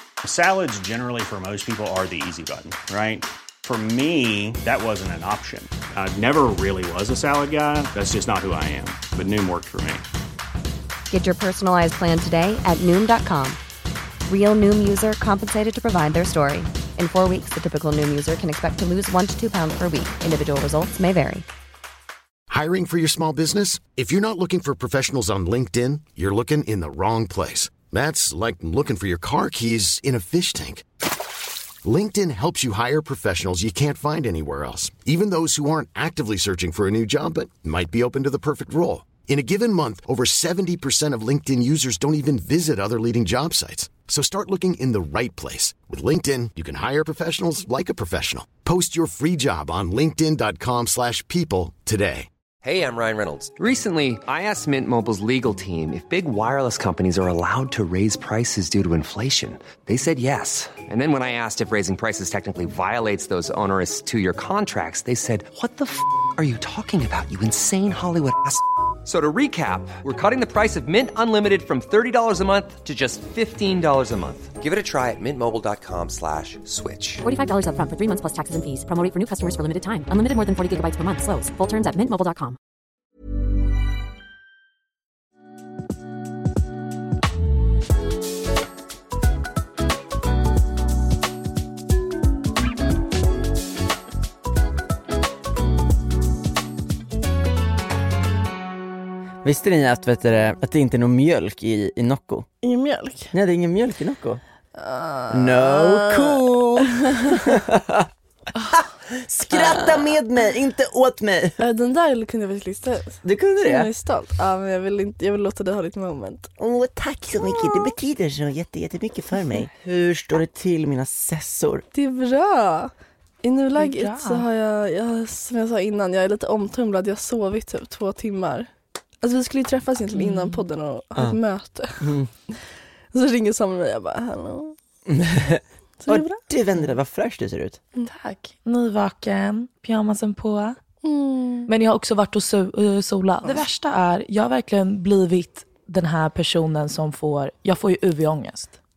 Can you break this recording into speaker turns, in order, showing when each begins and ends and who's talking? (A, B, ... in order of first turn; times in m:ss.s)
0:00.2-0:10.0 A
0:11.1-0:13.6 B
0:14.3-0:21.4 B
0:22.5-0:30.9 C
0:31.8-0:52.3 C
0:52.6-1:17.2 D
1:17.2-1:22.6 E
1:39.4-1:42.5 F
1:42.6-1:43.3 G
1:43.3-1:44.4 F
1:44.7-1:47.5 G
1:45.3-1:48.1 F
1:48.7-1:51.6 F
1:49.5-1:50.2 G
1:51.6-1:56.5 G
1:53.2-1:53.9 F
1:56.6-2:01.8 F
1:57.4-1:57.9 G
2:01.9-2:12.5 G
2:03.8-2:04.4 H
2:10.1-2:10.6 H
2:12.0-2:12.3 F
2:13.1-2:14.8 G
2:15.1-2:17.8 F
2:16.0-2:16.4 G
2:18.0-2:20.8 H
2:21.0-2:21.7 G
2:21.7-2:28.8 H